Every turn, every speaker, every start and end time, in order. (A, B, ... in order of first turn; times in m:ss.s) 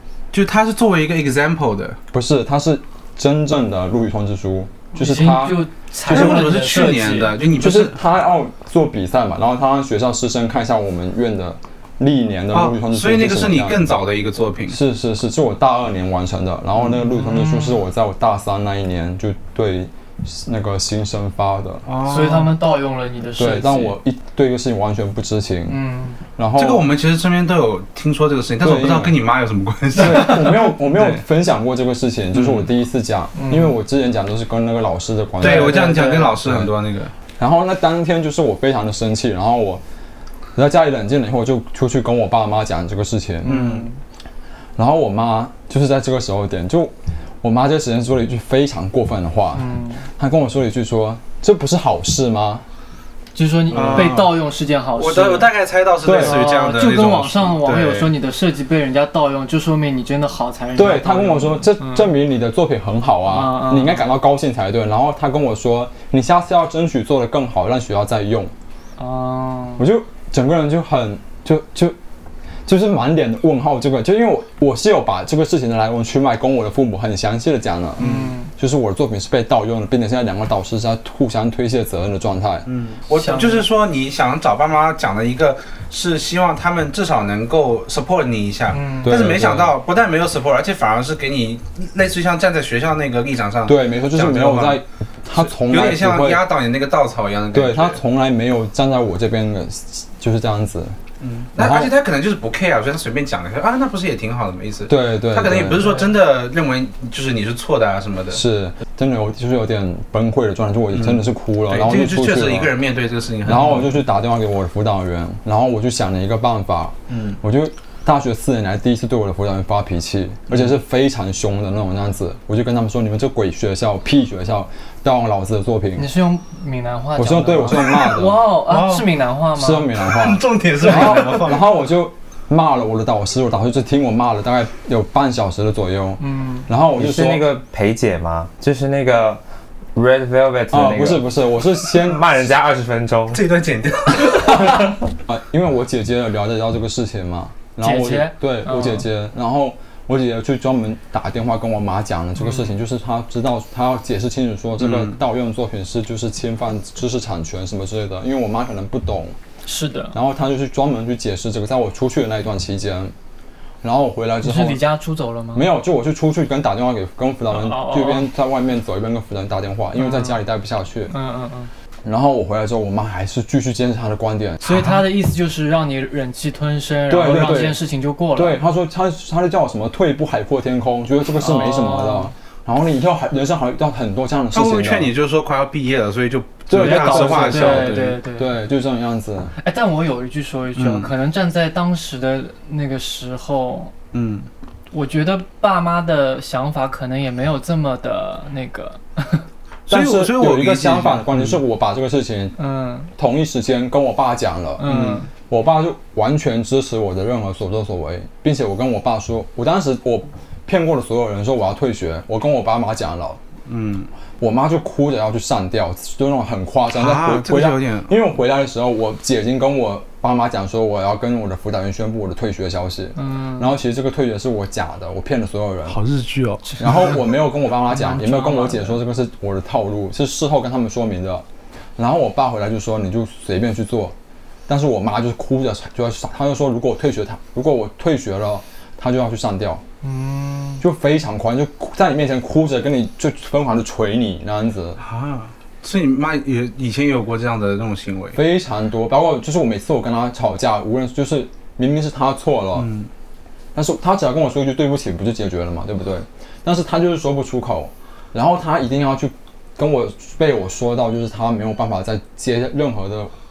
0:00.3-0:02.0 A
0:02.1-0:06.4 B
0:04.9-0:07.3 C
0:06.1-0:08.0 A
0:07.5-0:14.0 B
0:12.5-0:14.8 A
0:14.7-0:21.9 B
0:17.1-0:17.8 C
0:21.8-0:22.5 A
0:22.0-0:24.0 C
0:23.4-0:25.8 B
0:25.7-0:26.2 C
0:26.4-0:26.9 B
0:26.5-0:31.2 A
0:28.6-0:29.2 B
0:30.0-0:36.7 B
0:32.3-0:32.7 A
0:33.3-0:33.7 C
0:35.4-0:37.1 A
0:35.4-0:36.4 C
0:37.4-0:39.8 B
0:40.5-0:43.6 B
0:43.4-0:44.0 C
0:43.4-0:43.9 A
0:44.8-0:52.6 B
0:49.5-0:50.0 C
0:53.3-0:55.5 C
0:53.7-0:54.4 A
0:53.7-0:54.2 B
0:55.0-0:58.2 A
0:56.0-0:56.4 B
0:56.1-1:02.1 C
1:00.8-1:08.5 B
1:03.3-1:04.0 C
1:09.0-1:09.9 C
1:09.8-1:12.0 B
1:12.6-1:22.7 B
1:18.0-1:18.5 C
1:18.0-1:18.3 A
1:22.6-1:34.8 A
1:23.1-1:23.7 C
1:28.7-1:29.2 C
1:29.0-1:29.7 B
1:33.6-1:36.4 B
1:35.4-1:38.0 A
1:37.5-1:41.0 B
1:41.2-1:48.4 A
1:41.6-1:41.9 B
1:44.9-1:45.9 B
1:48.3-1:52.7 B
1:50.9-1:53.9 A
1:53.4-2:06.1 B
1:57.1-1:57.4 A
2:06.0-2:10.0 C
2:07.2-2:08.4 B
2:08.6-2:09.1 A
2:09.6-2:17.5 B
2:10.0-2:11.7 A
2:10.9-2:11.1 C
2:16.2-2:16.7 C
2:16.9-2:19.4 D
2:19.9-2:21.2 D
2:20.7-2:22.2 B
2:21.9-2:23.4 D
2:23.3-2:25.0 A
2:24.6-2:39.4 B
2:27.8-2:29.0 C
2:32.4-2:32.7 C
2:34.8-2:35.2 A
2:39.6-2:40.1 C
2:40.1-2:43.1 B
2:43.8-2:44.8 B
2:44.4-2:45.7 C
2:45.5-2:51.1 B
2:47.5-2:48.3 C
2:50.0-2:50.4 C
2:51.1-2:51.7 C
2:52.0-2:55.0 B
2:54.6-2:58.6 C
2:57.1-2:57.8 B
2:58.3-3:05.1 B
3:01.4-3:02.3 C
3:04.5-3:08.2 A
3:06.7-3:09.5 B
3:06.7-3:08.6 C
3:09.6-3:13.9 C
3:10.8-3:11.1 A
3:14.1-3:14.5 A
3:14.9-3:19.4 C
3:19.9-3:21.6 A
3:19.9-3:22.6 B
3:22.6-3:23.1 C
3:23.2-3:24.9 B
3:24.8-3:25.3 C
3:24.8-3:25.2 A
3:25.5-3:33.4 B
3:33.7-3:34.1 A
3:34.4-3:46.0 B
3:36.9-3:38.1 A
3:43.2-3:43.7 C
3:45.9-3:46.8 A
3:46.8-3:47.2 C
3:46.8-3:51.4 B
3:47.9-3:49.0 C
3:52.0-3:54.1 B
3:54.7-3:59.8 B
4:00.0-4:00.8 C
4:00.8-4:05.0 B
4:05.0-4:08.4 A
4:08.3-4:12.9 B
4:12.7-4:13.1 A
4:13.7-4:23.3 B